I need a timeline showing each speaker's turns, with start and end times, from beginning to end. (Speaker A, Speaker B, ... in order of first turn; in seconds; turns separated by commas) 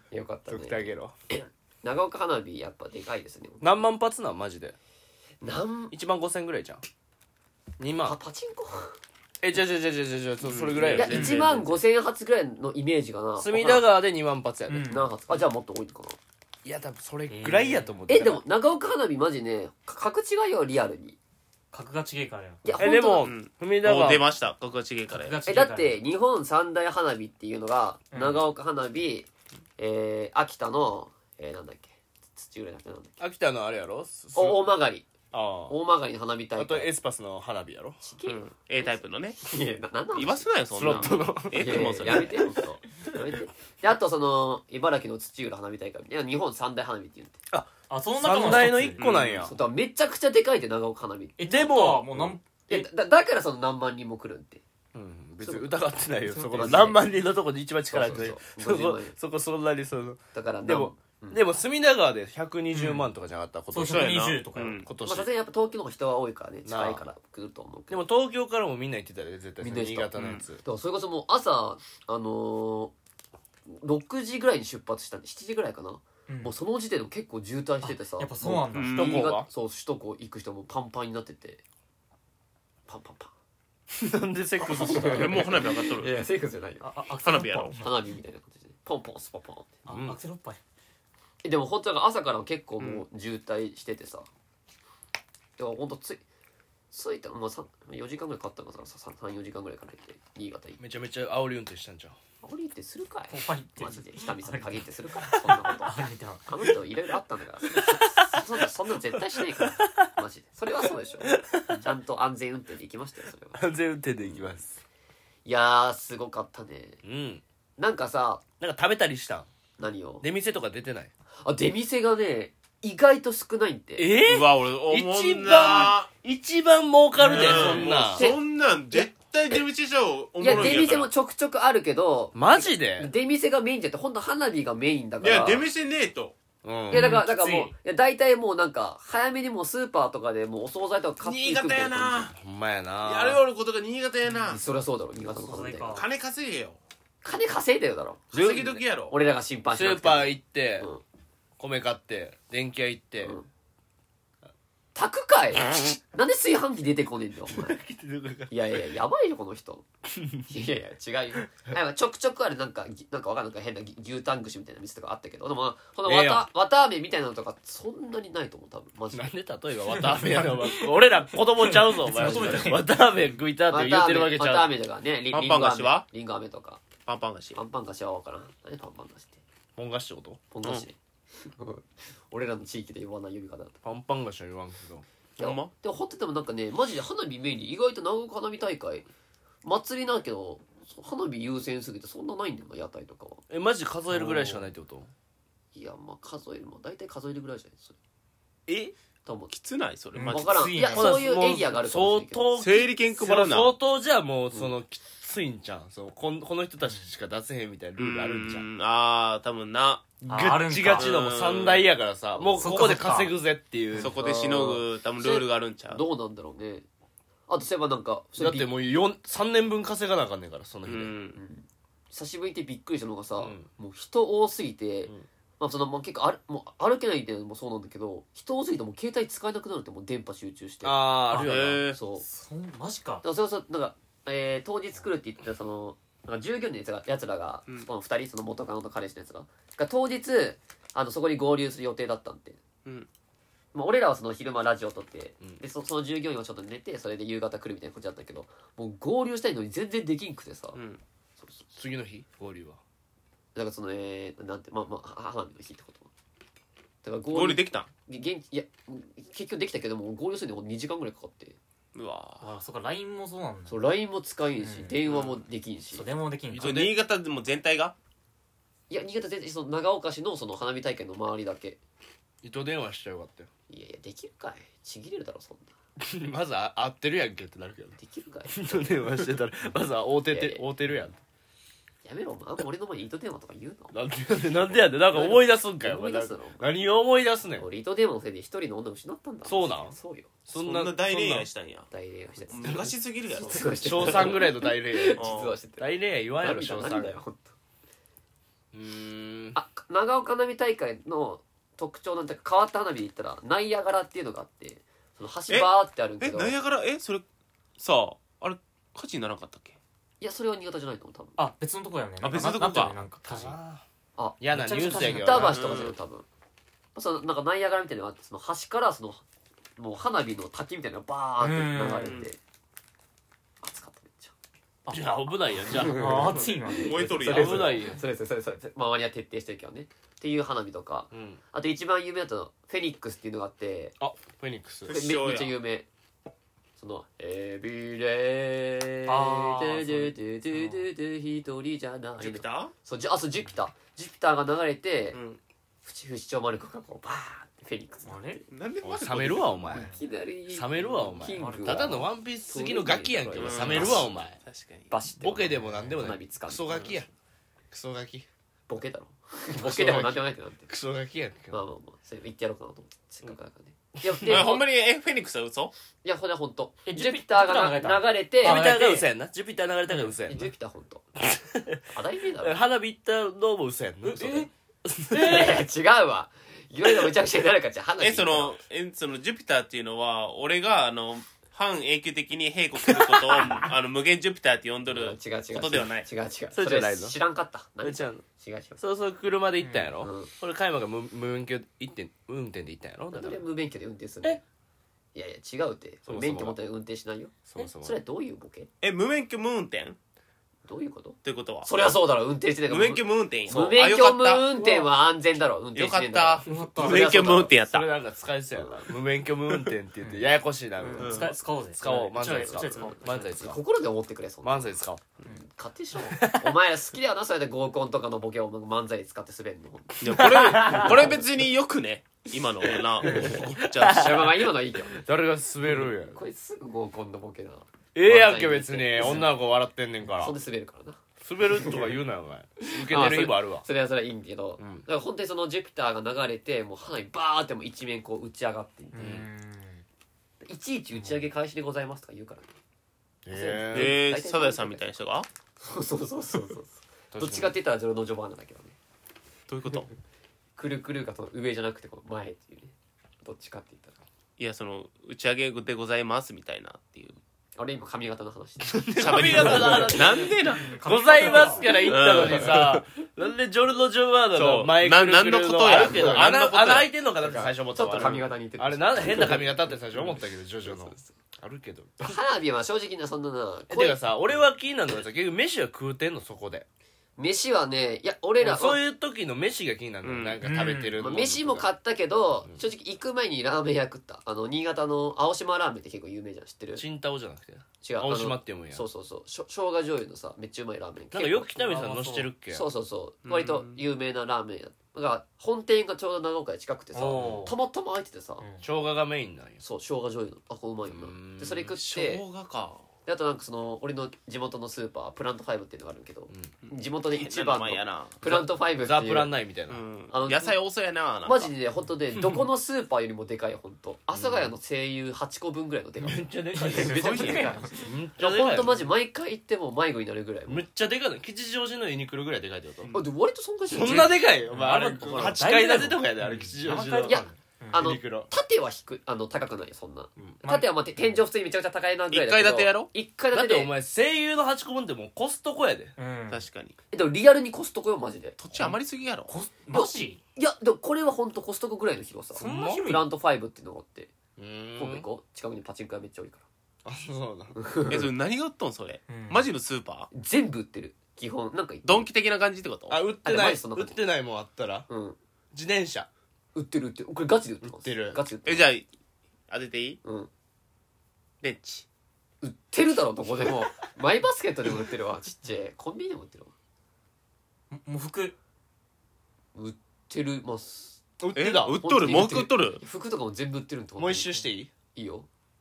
Speaker A: 0.1-3.7, Speaker B: 0.5-1.1, Speaker B: 3.6-4.8, Speaker A: 5.4-5.9, Speaker B: 5.9-6.8, Speaker B: 7.8-8.2, Speaker A: 8.0-9.0, Speaker B: 9.4-11.7, Speaker C: 10.4-11.6, Speaker D: 10.9-11.4, Speaker A: 10.9-13.8, Speaker B: 13.4-14.9, Speaker D: 14.7-15.1, Speaker A: 14.9-16.2, Speaker B: 16.6-18.4, Speaker D: 17.3-17.9, Speaker A: 18.1-21.2, Speaker D: 21.7-22.6, Speaker A: 22.6-23.3, Speaker B: 22.8-24.2, Speaker C: 23.2-25.4, Speaker D: 25.1-26.0, Speaker A: 25.4-33.2, Speaker D: 28.1-28.4, Speaker B: 33.2-34.7, Speaker A: 34.3-35.1, Speaker B: 35.3-35.8, Speaker A: 35.7-36.9, Speaker B: 36.5-38.0, Speaker A: 38.0-47.4, Speaker C: 38.2-39.4, Speaker C: 40.1-42.4, Speaker B: 40.7-42.4, Speaker B: 47.5-49.5, Speaker D: 47.9-49.0, Speaker C: 49.0-49.4, Speaker A: 49.4-51.4, Speaker D: 51.4-52.8, Speaker B: 51.4-52.4, Speaker A: 52.7-54.6, Speaker B: 54.9-64.2, Speaker A: 55.4-55.7, Speaker D: 56.4-56.9, Speaker A: 56.4-57.0, Speaker A: 57.9-59.1, Speaker A: 60.3-61.4, Speaker D: 62.7-63.1, Speaker D: 63.7-64.8, Speaker C: 63.9-64.9, Speaker B: 64.8-65.3, Speaker A: 65.0-68.0, Speaker B: 66.6-67.0, Speaker B: 67.9-70.6, Speaker A: 69.6-72.9, Speaker C: 70.2-70.4, Speaker A: 73.7-81.6, Speaker D: 76.3-76.5, Speaker D: 77.8-79.2, Speaker C: 78.7-79.2, Speaker B: 78.9-79.5, Speaker A: 82.9-83.3, Speaker B: 83.9-85.5, Speaker A: 84.6-86.9, Speaker C: 85.0-86.1, Speaker D: 86.8-87.9, Speaker C: 87.2-87.8, Speaker A: 87.8-89.8, Speaker D: 89.8-90.6, Speaker B: 89.9-90.2, Speaker A: 91.4-94.3, Speaker C: 92.8-93.0, Speaker A: 95.6-96.2, Speaker A: 96.9-100.8, Speaker B: 100.8-102.2, Speaker A: 102.4-113.6, Speaker D: 103.3-106.5, Speaker B: 107.7-108.4, Speaker B: 109.6-110.1, Speaker B: 111.2-111.9, Speaker B: 113.5-114.8, Speaker A: 114.2-114.5, Speaker A: 115.4-117.0, Speaker B: 117.0-117.4, Speaker A: 117.8-118.4, Speaker B: 118.6-119.5, Speaker A: 119.8-120.2, Speaker B: 120.2-121.1, Speaker A: 121.4-124.1, Speaker B: 124.0-128.3, Speaker C: 124.2-126.1, Speaker D: 127.2-127.9, Speaker C: 127.3-131.1, Speaker A: 127.4-129.1, Speaker A: 130.4-135.7, Speaker B: 132.3-133.1, Speaker C: 135.2-136.3, Speaker B: 136.6-137.2, Speaker D: 136.9-137.7, Speaker A: 136.9-142.3, Speaker C: 141.2-142.3, Speaker B: 142.3-143.4, Speaker C: 143.0-144.6, Speaker A: 144.4-146.0, Speaker D: 145.2-146.1, Speaker C: 145.9-146.8, Speaker A: 147.2-151.0, Speaker C: 148.3-149.2, Speaker B: 148.3-148.8, Speaker B: 149.7-150.9, Speaker B: 151.6-153.4, Speaker A: 153.2-153.5, Speaker A: 154.9-157.8, Speaker B: 157.5-158.6, Speaker A: 158.5-159.8, Speaker B: 160.1-160.5, Speaker A: 160.5-169.3, Speaker B: 166.0-166.5, Speaker B: 169.1-174.7, Speaker D: 171.8-172.8, Speaker A: 172.2-172.7, Speaker A: 173.7-176.8, Speaker C: 175.3-176.1, Speaker C: 177.1-177.6, Speaker A: 177.5-179.4, Speaker B: 179.8-180.4, Speaker A: 180.5-183.8, Speaker B: 183.8-185.1, Speaker C: 185.4-185.7, Speaker A: 185.4-189.1, Speaker A: 189.6-193.4, Speaker B: 193.5-195.1, Speaker D: 194.1-194.7, Speaker A: 195.7-197.9, Speaker B: 198.7-198.9, Speaker A: 199.2-199.5, Speaker C: 199.5-200.8, Speaker D: 200.1-201.3, Speaker A: 200.3-202.5, Speaker B: 200.9-208.7, Speaker C: 202.6-203.7, Speaker C: 208.0-210.1, Speaker B: 210.2-214.1, Speaker D: 210.2-211.2, Speaker C: 210.9-211.8, Speaker A: 212.3-212.7, Speaker D: 212.6-213.3, Speaker C: 214.0-216.0, Speaker A: 214.0-216.8, Speaker A: 217.5-218.7, Speaker B: 218.4-221.1, Speaker C: 220.8-221.4, Speaker A: 221.3-231.1, Speaker B: 223.4-223.7, Speaker B: 230.8-231.8, Speaker D: 231.3-231.7, Speaker C: 231.4-232.0, Speaker A: 231.8-232.2, Speaker D: 232.2-233.2, Speaker A: 233.2-242.6, Speaker A: 243.7-250.8, Speaker C: 250.7-251.0, Speaker A: 251.4-251.6, Speaker B: 251.7-252.8, Speaker A: 253.5-256.1, Speaker A: 257.0-261.6, Speaker C: 257.3-257.9, Speaker C: 261.9-262.5, Speaker D: 262.4-263.8, Speaker A: 263.7-266.1, Speaker D: 264.6-265.0, Speaker C: 265.1-265.4, Speaker D: 265.9-266.9, Speaker C: 266.5-267.9, Speaker B: 266.6-266.9, Speaker A: 268.9-271.8, Speaker B: 272.4-273.5, Speaker A: 273.7-275.7, Speaker B: 276.0-278.0, Speaker A: 278.0-279.3, Speaker B: 278.5-281.2, Speaker A: 280.3-280.6, Speaker A: 282.0-283.9, Speaker B: 283.9-287.6, Speaker A: 285.1-286.7, Speaker A: 287.6-290.4, Speaker B: 289.4-289.9, Speaker B: 290.5-291.5, Speaker C: 290.5-291.9, Speaker A: 291.9-295.9, Speaker C: 292.5-294.2, Speaker B: 293.8-295.2, Speaker C: 295.1-295.5, Speaker B: 295.8-297.2, Speaker A: 296.4-297.6, Speaker B: 298.7-299.6, Speaker A: 299.5-306.6, Speaker C: 305.5-307.2, Speaker C: 307.8-309.8, Speaker A: 310.2-311.4, Speaker D: 311.4-313.6, Speaker C: 312.2-313.0, Speaker B: 313.2-313.8, Speaker A: 314.2-316.2, Speaker B: 314.4-315.6, Speaker D: 314.6-315.6, Speaker C: 315.4-315.9, Speaker A: 316.9-319.2, Speaker A: 319.8-322.4, Speaker D: 321.4-322.2, Speaker C: 321.9-322.3, Speaker A: 323.6-324.3, Speaker B: 324.9-326.4, Speaker A: 325.6-333.9, Speaker D: 325.8-327.1, Speaker C: 326.7-327.8, Speaker B: 327.2-328.0, Speaker B: 331.1-331.4, Speaker B: 334.0-335.0, Speaker C: 334.9-335.6, Speaker A: 334.9-335.9, Speaker A: 336.8-345.2, Speaker D: 339.1-340.8, Speaker C: 342.2-342.7, Speaker C: 345.1-345.4, Speaker A: 345.8-348.2, Speaker D: 348.1-348.4, Speaker C: 348.5-349.7, Speaker B: 348.8-349.9, Speaker A: 349.7-354.1, Speaker B: 350.5-354.4, Speaker D: 351.3-352.0, Speaker C: 353.4-354.9, Speaker A: 354.9-356.8, Speaker B: 355.2-357.1, Speaker B: 357.7-358.2, Speaker A: 358.7-360.7, Speaker B: 359.5-361.6, Speaker A: 361.5-364.6, Speaker B: 364.1-364.4, Speaker C: 364.2-365.7, Speaker A: 366.0-368.6, Speaker D: 366.9-369.1, Speaker B: 368.4-370.5, Speaker A: 370.2-371.1, Speaker B: 371.2-371.9, Speaker A: 371.9-372.6, Speaker B: 372.4-375.6, Speaker D: 374.0-374.5, Speaker A: 375.1-378.6, Speaker C: 378.0-386.1, Speaker B: 382.9-383.7, Speaker A: 384.9-388.8, Speaker B: 386.5-387.2, Speaker B: 387.8-388.2, Speaker B: 388.8-393.4, Speaker D: 389.6-389.9, Speaker A: 390.0-390.3, Speaker A: 393.1-394.4, Speaker A: 395.1-398.7, Speaker B: 396.1-396.6, Speaker B: 397.5-398.0, Speaker C: 398.8-400.0, Speaker A: 400.6-407.5, Speaker C: 401.2-401.7, Speaker C: 402.7-404.5, Speaker D: 404.6-404.9, Speaker C: 405.7-407.9, Speaker D: 406.4-407.2, Speaker B: 407.0-413.6, Speaker A: 408.5-408.8, Speaker D: 410.0-410.3, Speaker D: 410.8-413.4, Speaker C: 411.0-411.4, Speaker A: 412.3-412.6, Speaker C: 412.6-412.9, Speaker A: 413.2-421.2, Speaker B: 414.4-415.0, Speaker B: 416.1-416.5, Speaker C: 420.0-424.4, Speaker B: 420.1-421.2, Speaker B: 423.0-424.3, Speaker A: 423.0-425.0, Speaker B: 424.9-426.2, Speaker A: 425.7-429.4, Speaker B: 427.9-430.3, Speaker A: 430.1-431.9, Speaker B: 431.2-433.6, Speaker A: 432.6-439.2, Speaker B: 434.6-434.8, Speaker D: 438.9-439.8, Speaker B: 439.0-439.3, Speaker A: 440.4-442.5, Speaker B: 443.2-444.0, Speaker A: 443.3-444.9, Speaker C: 443.7-445.3, Speaker A: 445.6-448.8, Speaker B: 447.1-447.5, Speaker C: 449.5-449.9, Speaker A: 450.6-453.9, Speaker C: 454.4-457.2, Speaker A: 457.6-460.3, Speaker B: 458.6-472.1, Speaker C: 459.0-460.8, Speaker D: 460.5-461.9, Speaker A: 461.6-462.7, Speaker C: 461.8-462.6, Speaker C: 464.3-466.9, Speaker A: 465.7-466.3, Speaker A: 467.2-470.1, Speaker A: 470.6-471.1, Speaker A: 472.0-474.0, Speaker B: 473.7-476.6, Speaker A: 477.2-478.8, Speaker B: 478.4-481.7, Speaker C: 480.0-480.4, Speaker D: 480.4-481.0, Speaker A: 481.0-486.8, Speaker B: 486.7-488.8, Speaker A: 487.8-491.6, Speaker B: 491.1-492.6, Speaker D: 491.6-492.3, Speaker A: 492.5-498.4, Speaker C: 493.2-493.8, Speaker D: 496.9-497.5, Speaker B: 497.2-497.5, Speaker B: 498.6-499.6, Speaker A: 499.6-502.2, Speaker B: 500.9-501.8, Speaker C: 501.7-502.9, Speaker A: 503.1-509.3, Speaker C: 506.6-508.2, Speaker B: 508.2-509.8, Speaker C: 509.7-511.5, Speaker A: 510.1-510.6, Speaker A: 511.2-520.6, Speaker B: 514.1-514.5, Speaker B: 516.0-518.9, Speaker D: 516.7-517.8, Speaker C: 516.8-517.6, Speaker B: 520.5-522.9, Speaker A: 522.9-524.3, Speaker B: 523.7-528.3, Speaker D: 523.9-527.9, Speaker C: 525.1-525.3, Speaker A: 527.0-533.7, Speaker B: 530.2-530.4, Speaker D: 530.4-530.7, Speaker C: 532.1-532.9, Speaker B: 533.3-535.9, Speaker D: 536.0-536.4, Speaker C: 536.3-536.8, Speaker A: 536.9-538.4, Speaker C: 538.4-539.3, Speaker D: 539.3-540.2, Speaker A: 539.7-544.1, Speaker D: 542.3-543.0, Speaker B: 542.4-542.8, Speaker B: 544.4-545.0, Speaker A: 544.8-546.4, Speaker B: 546.8-547.6, Speaker A: 547.5-548.1, Speaker C: 547.9-550.1, Speaker D: 549.1-549.5, Speaker A: 550.1-552.1, Speaker C: 551.8-553.0, Speaker B: 552.9-554.9, Speaker A: 553.2-554.0, Speaker A: 554.9-555.2, Speaker B: 555.5-556.1, Speaker A: 556.5-558.7, Speaker B: 557.6-558.2, Speaker C: 558.4-558.9, Speaker C: 559.5-560.0, Speaker A: 560.0-560.3, Speaker C: 561.4-561.9, Speaker A: 562.4-566.5, Speaker D: 567.7-568.3, Speaker A: 569.5-571.0, Speaker B: 571.2-571.8, Speaker C: 571.4-572.8, Speaker A: 571.7-574.4, Speaker B: 574.0-574.7, Speaker A: 574.9-575.3